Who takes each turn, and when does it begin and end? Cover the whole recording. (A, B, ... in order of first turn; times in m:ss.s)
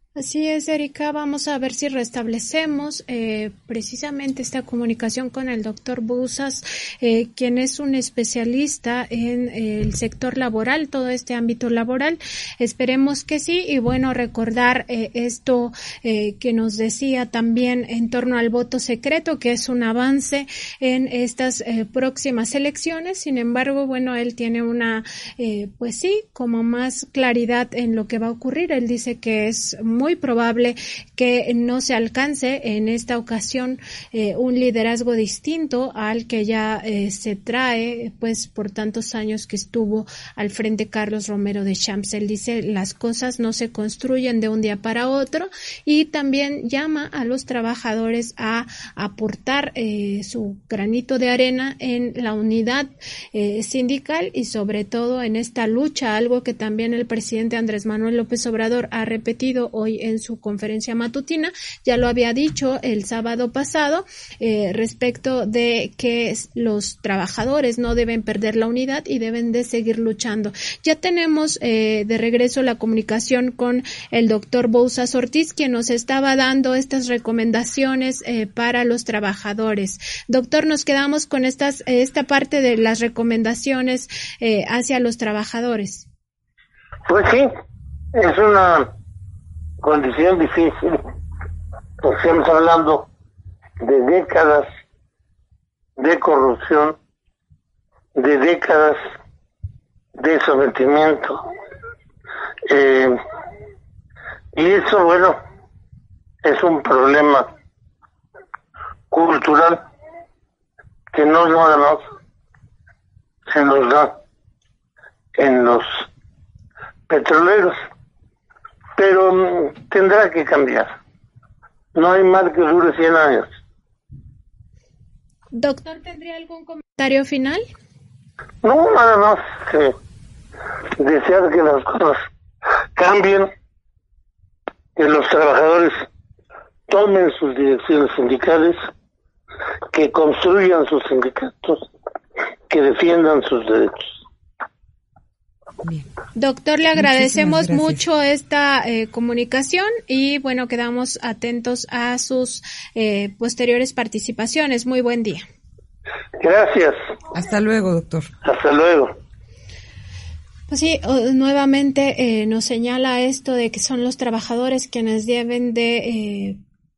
0:00.2-1:26.1 A
1:27.1-1:27.5 B
1:28.1-1:28.9 B
1:29.8-1:31.0 B
1:32.0-1:33.1 B
1:33.8-1:34.7 B
1:36.0-1:37.0 B
1:38.2-1:39.0 B
1:40.2-1:41.4 B
1:42.7-1:43.2 B
1:44.5-1:45.4 B
1:46.4-1:47.5 B
1:49.1-1:49.8 B
1:51.1-1:52.0 B
1:53.5-1:54.2 B
1:55.4-1:56.1 B
1:57.1-1:57.8 B
1:59.0-2:01.0 B
2:02.0-2:03.5 B
2:05.5-2:07.7 A
2:08.6-2:09.9 B
2:11.0-2:12.2 B
2:13.0-2:13.5 B
2:15.0-2:16.1 B
2:16.9-2:18.8 B
2:19.9-2:21.9 B
2:22.7-2:24.1 B
2:25.8-2:26.1 C
2:26.4-2:35.4 A
2:27.0-2:28.0 C
2:36.4-2:37.0 B
2:37.3-2:38.3 C
2:38.4-2:39.2 B
2:40.7-2:46.6 A